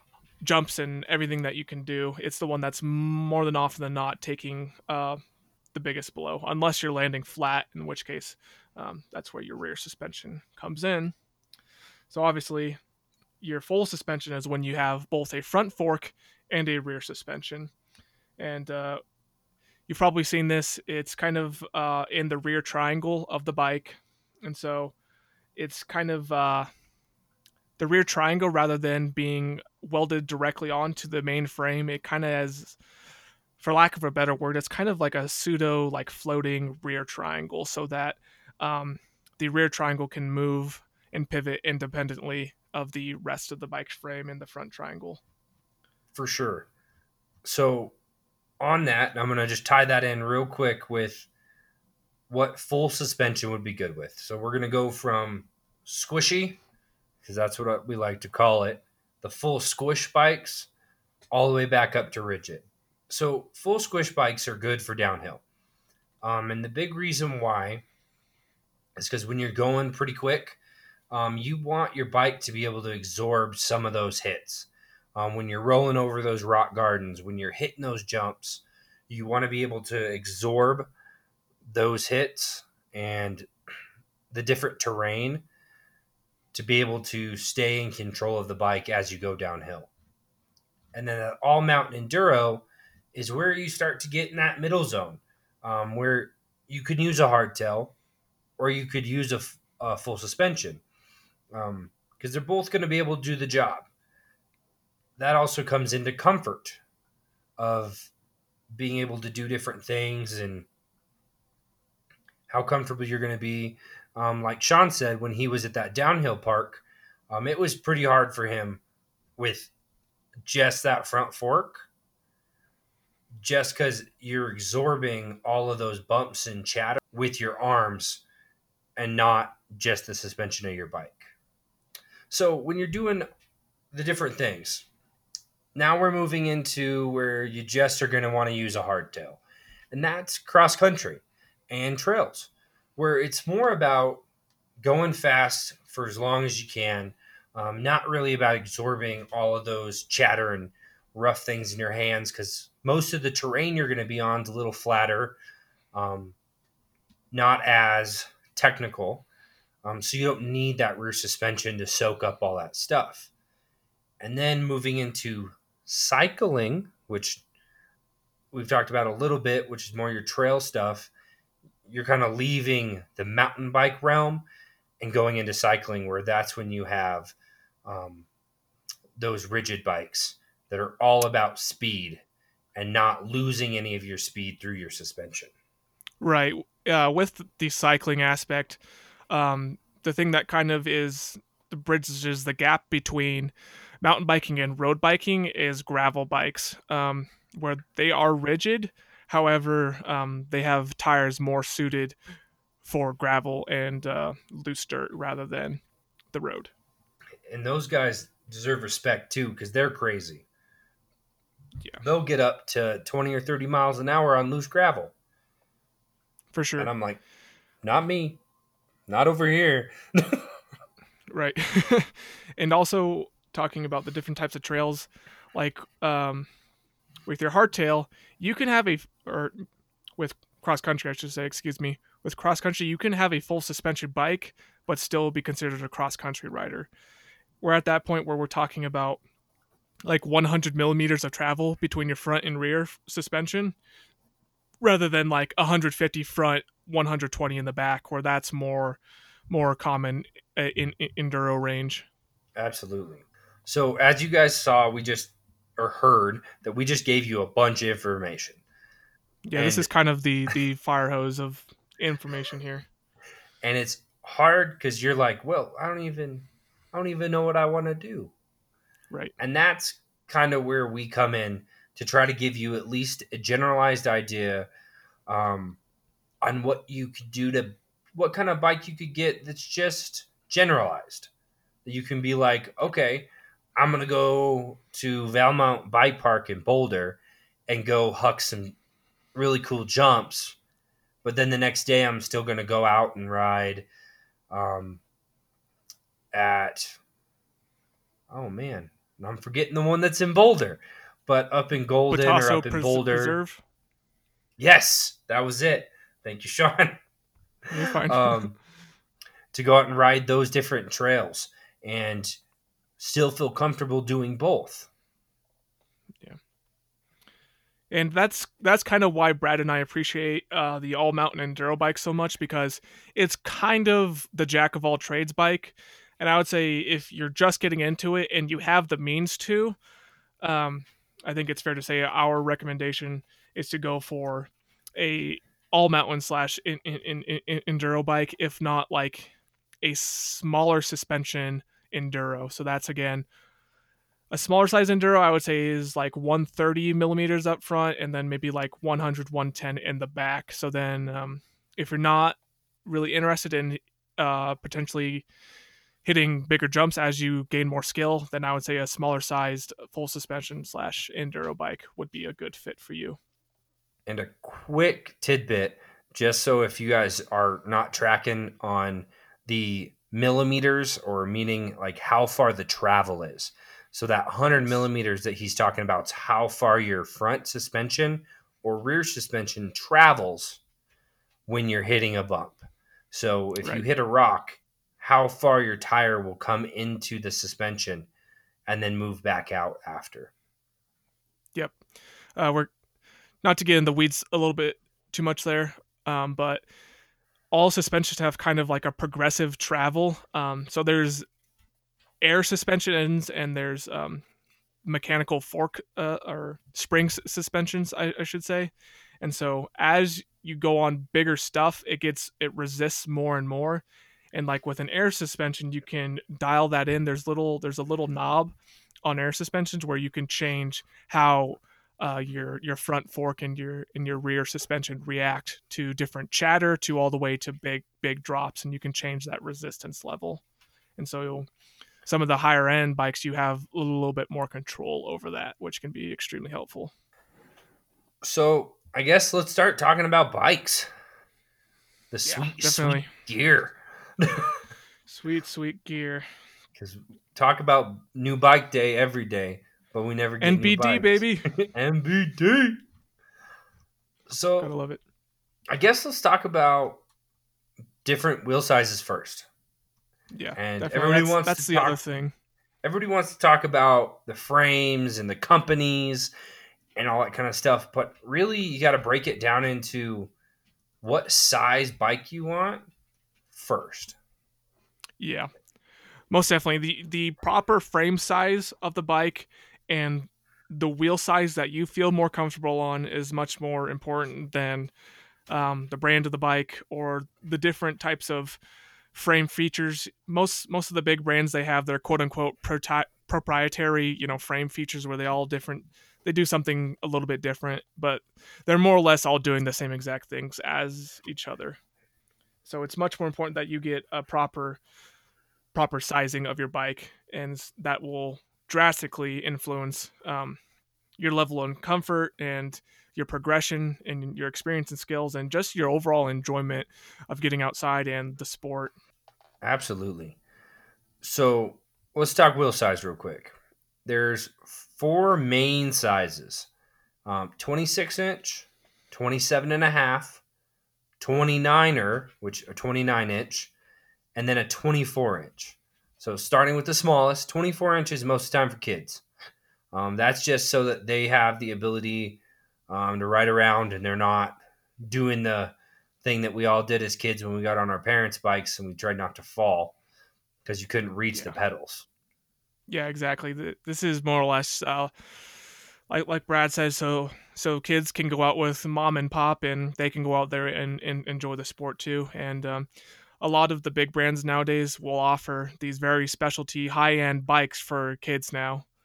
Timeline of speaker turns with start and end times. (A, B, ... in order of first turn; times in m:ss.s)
0:00.4-0:05.2 A
0:05.7-0:11.1 A
0:12.1-0:12.8 A
0:13.4-0:17.7 A
0:18.4-0:19.0 A
0:19.9-0:24.9 A
0:25.6-0:26.7 A
0:27.8-0:32.8 A
0:33.6-0:45.2 A
0:46.1-0:46.7 B
0:47.4-0:48.0 B
0:48.6-0:51.3 B
0:52.3-0:56.6 B
0:57.2-1:00.7 B
1:01.3-1:05.4 B
1:06.2-1:07.8 B
1:09.0-1:10.6 B
1:11.1-1:20.9 B
1:21.6-1:23.5 B
1:24.3-1:25.4 B
1:26.5-1:29.9 B
1:30.9-1:37.9 B
1:38.6-1:40.8 B
1:41.5-1:43.9 B
1:45.2-1:46.8 B
1:47.6-1:48.1 B
1:48.7-1:50.7 B
1:52.5-1:58.8 B
1:59.4-1:59.7 B
2:00.4-2:01.9 B
2:03.4-2:08.2 B
2:09.0-2:11.3 B
2:12.3-2:13.3 B
2:13.9-2:14.9 B
2:15.8-2:19.4 B
2:19.9-2:24.2 B
2:24.8-2:35.4 B
2:35.9-2:36.4 B
2:37.3-2:39.3 B
2:39.8-2:43.3 B
2:44.2-2:47.4 B
2:48.5-2:51.1 B
2:51.9-2:54.4 B
2:55.0-2:57.3 B
2:57.8-2:58.3 B
2:59.2-3:02.2 B
3:02.8-3:05.5 B
3:06.2-3:22.2 A
3:22.8-3:25.8 A
3:26.3-3:26.7 A
3:27.5-3:30.5 B
3:32.0-3:35.1 B
3:36.5-3:36.9 A
3:36.8-3:37.2 B
3:37.8-3:38.4 B
3:39.1-3:40.4 B
3:41.3-3:46.5 A
3:47.3-3:49.6 A
3:50.2-3:56.9 A
3:57.6-3:59.2 A
4:00.0-4:03.8 A
4:04.8-4:12.1 A
4:12.6-4:18.6 B
4:19.4-4:22.9 A
4:19.6-4:19.9 B
4:23.6-4:28.3 B
4:29.4-4:34.7 B
4:35.3-4:35.8 B
4:36.4-4:41.3 B
4:41.8-4:48.8 B
4:49.4-4:50.6 B
4:51.2-4:53.9 B
4:54.5-4:55.0 B
4:56.3-4:57.0 B
4:58.3-5:03.4 B
5:02.1-5:03.6 A
5:04.6-5:07.0 B
5:07.7-5:08.4 A
5:07.8-5:08.6 B
5:09.5-5:12.4 B
5:13.0-5:14.9 B
5:17.9-5:29.8 A
5:30.4-5:43.3 A
5:44.3-5:55.2 A
5:56.0-6:03.2 A
6:04.1-6:20.6 B
6:14.5-6:14.8 A
6:21.5-6:28.1 B
6:28.7-6:30.3 B
6:32.4-6:32.7 A
6:33.4-6:36.6 A
6:37.5-6:41.2 A
6:42.2-6:44.2 A
6:44.8-7:10.4 A
7:11.0-7:11.5 A
7:12.0-7:16.9 A
7:18.2-7:20.9 B
7:22.1-7:24.5 B
7:22.3-7:23.1 A
7:25.1-7:26.2 A
7:26.8-7:32.8 B
7:30.4-7:31.5 A
7:34.3-7:34.7 B
7:34.6-7:35.0 A
7:35.7-7:37.0 B
7:38.0-7:39.5 B
7:40.3-7:42.3 A
7:40.6-7:42.0 B
7:42.8-7:46.3 B
7:47.0-7:50.3 B
7:51.0-7:52.9 B
7:53.5-7:54.2 B
7:55.2-7:55.5 A
7:56.3-8:04.9 A
8:05.5-8:08.6 A
8:09.1-8:21.8 A
8:22.6-8:24.8 A
8:25.7-8:30.6 A
8:31.2-8:38.9 A
8:39.6-8:40.4 B
8:41.2-8:46.7 B
8:47.2-8:50.4 B
8:51.2-8:53.7 B
8:54.4-8:59.2 B
8:59.9-9:10.0 B
9:10.6-9:12.1 B
9:12.9-9:15.1 A
9:16.1-9:22.9 A
9:23.4-9:28.8 A